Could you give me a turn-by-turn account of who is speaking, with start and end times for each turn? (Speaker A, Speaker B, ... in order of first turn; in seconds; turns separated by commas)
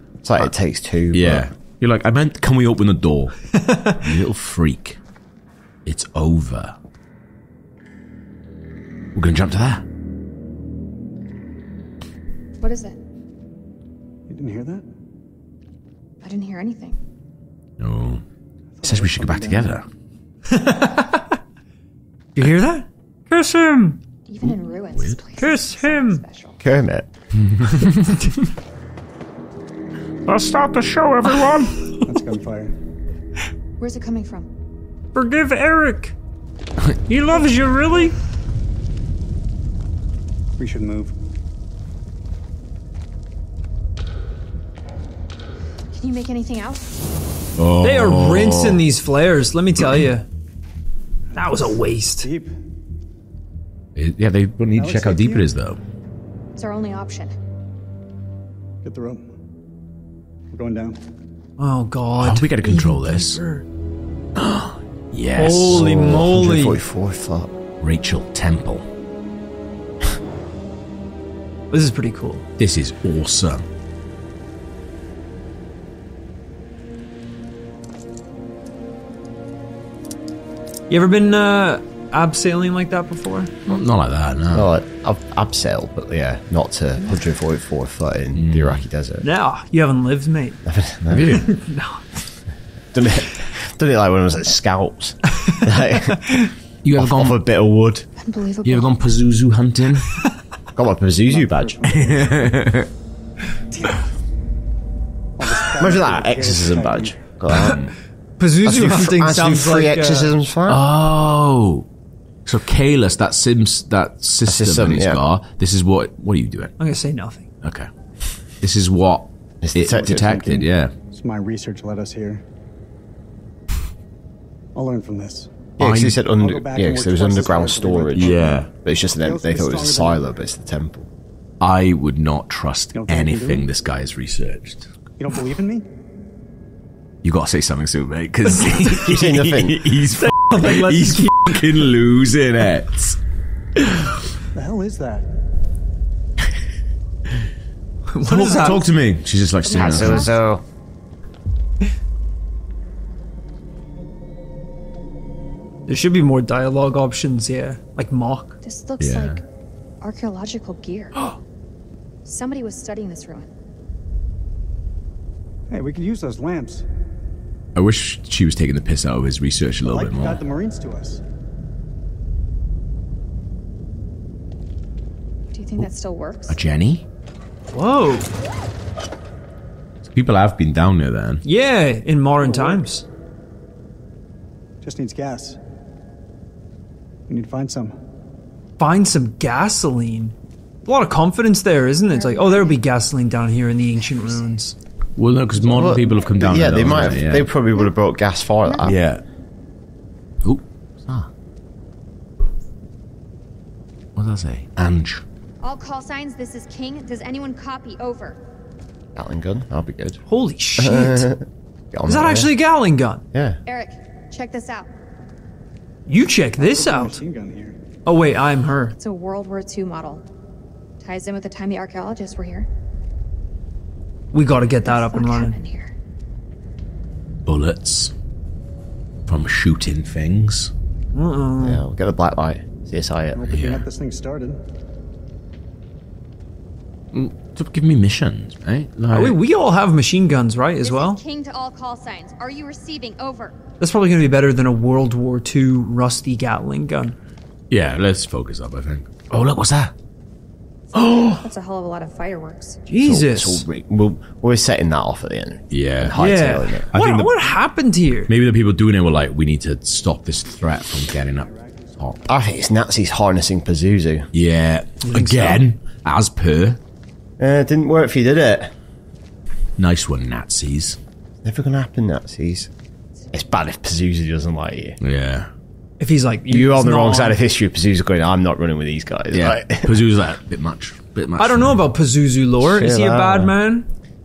Speaker A: 0.2-1.5, Speaker B: 1.1-3.4, Speaker C: 3.6-4.0, Speaker B: 3.9-5.0, Speaker B: 5.9-6.8, Speaker B: 9.2-9.8, Speaker D: 12.6-13.0, Speaker E: 14.3-14.8, Speaker D: 16.2-17.0, Speaker B: 17.8-18.2, Speaker E: 18.8-19.8, Speaker B: 18.8-19.9, Speaker C: 20.5-21.4, Speaker C: 22.4-24.0, Speaker D: 24.2-26.6, Speaker B: 24.4-25.2, Speaker C: 25.4-26.2, Speaker A: 26.6-27.1, Speaker B: 27.4-28.2, Speaker B: 30.3-31.8, Speaker C: 31.3-32.0, Speaker E: 32.0-32.7, Speaker D: 33.8-34.5, Speaker C: 35.1-36.1, Speaker C: 37.1-38.1, Speaker E: 40.6-41.1, Speaker D: 45.9-46.9, Speaker B: 47.6-48.8, Speaker C: 47.8-50.3, Speaker E: 51.3-52.6, Speaker C: 51.4-52.3, Speaker B: 54.0-55.8, Speaker E: 54.8-55.5, Speaker D: 56.6-57.3, Speaker E: 58.8-59.3, Speaker E: 60.5-61.0, Speaker C: 61.6-63.6, Speaker B: 62.2-63.4, Speaker B: 64.4-66.0, Speaker C: 65.3-66.8, Speaker A: 65.7-67.5, Speaker B: 67.8-68.9, Speaker C: 71.7-72.5, Speaker B: 72.6-73.7, Speaker C: 80.9-83.5, Speaker B: 83.7-84.7, Speaker A: 84.5-89.3, Speaker B: 88.3-88.8, Speaker C: 89.2-90.6, Speaker A: 90.7-91.4, Speaker B: 91.1-91.5, Speaker C: 91.3-92.1, Speaker A: 92.9-96.4, Speaker B: 96.8-97.4, Speaker A: 97.0-98.1, Speaker D: 98.2-98.9, Speaker B: 98.6-100.2, Speaker A: 100.8-101.8, Speaker E: 101.3-102.5, Speaker B: 101.9-102.9, Speaker E: 105.4-107.2, Speaker A: 105.8-107.9, Speaker B: 107.5-107.9, Speaker C: 108.4-110.3, Speaker A: 108.6-110.8, Speaker B: 110.7-111.9, Speaker B: 112.5-116.7, Speaker A: 114.5-115.2, Speaker C: 116.8-117.5, Speaker B: 117.6-117.9, Speaker B: 118.6-120.9, Speaker A: 119.6-120.6, Speaker E: 119.9-122.4, Speaker E: 124.8-125.5, Speaker A: 125.8-131.1, Speaker B: 125.8-126.2, Speaker E: 126.3-130.4, Speaker B: 128.1-128.7, Speaker B: 131.6-134.9, Speaker E: 132.9-133.7, Speaker E: 135.2-135.9, Speaker B: 137.2-143.2, Speaker A: 139.0-139.9, Speaker C: 140.2-141.4, Speaker B: 143.8-144.1, Speaker E: 144.5-145.3, Speaker C: 148.1-148.9, Speaker B: 148.2-150.4, Speaker D: 149.7-150.4, Speaker A: 149.7-150.6, Speaker C: 155.9-158.6, Speaker D: 158.6-159.4, Speaker B: 159.0-159.4, Speaker D: 160.0-161.2, Speaker D: 162.2-163.5, Speaker E: 165.7-166.9, Speaker B: 167.8-170.4, Speaker E: 169.8-171.2, Speaker D: 175.5-176.6, Speaker B: 176.5-177.1, Speaker C: 177.7-178.3, Speaker B: 180.1-181.4, Speaker C: 181.4-183.1, Speaker E: 182.4-182.8, Speaker E: 184.8-185.6, Speaker E: 187.3-188.0, Speaker C: 188.8-194.7, Speaker D: 192.1-192.8, Speaker D: 194.1-194.5, Speaker B: 195.2-197.5, Speaker E: 195.6-196.4, Speaker A: 195.7-199.0, Speaker D: 198.7-199.0, Speaker B: 198.8-199.2, Speaker B: 200.4-201.3, Speaker B: 204.2-205.2, Speaker D: 205.6-208.4, Speaker A: 209.2-210.2, Speaker C: 210.3-211.3, Speaker A: 210.8-212.5, Speaker C: 212.1-213.2, Speaker D: 213.7-214.9, Speaker C: 216.1-217.2, Speaker E: 216.6-217.8, Speaker C: 218.1-218.9, Speaker D: 219.0-220.3, Speaker D: 221.0-222.7, Speaker C: 224.3-225.6, Speaker D: 224.8-225.9, Speaker B: 227.5-228.1, Speaker B: 229.3-230.7, Speaker C: 231.1-231.8, Speaker A: 231.6-233.5, Speaker E: 233.3-234.6, Speaker B: 233.5-233.9, Speaker B: 237.1-239.4, Speaker C: 239.1-241.2, Speaker D: 240.8-243.6, Speaker C: 243.8-247.2, Speaker B: 247.7-249.9, Speaker B: 250.9-251.4, Speaker D: 251.1-252.8, Speaker C: 252.9-253.6, Speaker A: 253.0-256.9, Speaker B: 255.7-256.2, Speaker C: 256.2-258.3, Speaker B: 256.9-257.3, Speaker B: 258.3-262.2, Speaker E: 260.5-262.6, Speaker A: 262.3-264.3, Speaker B: 264.3-266.8, Speaker C: 265.0-265.6, Speaker A: 267.4-268.7, Speaker B: 269.8-271.0, Speaker A: 271.4-272.7, Speaker A: 273.3-275.0, Speaker B: 275.0-275.5, Speaker C: 276.0-277.4, Speaker A: 276.5-280.0, Speaker B: 279.3-281.8, Speaker C: 281.4-283.9, Speaker A: 282.6-283.5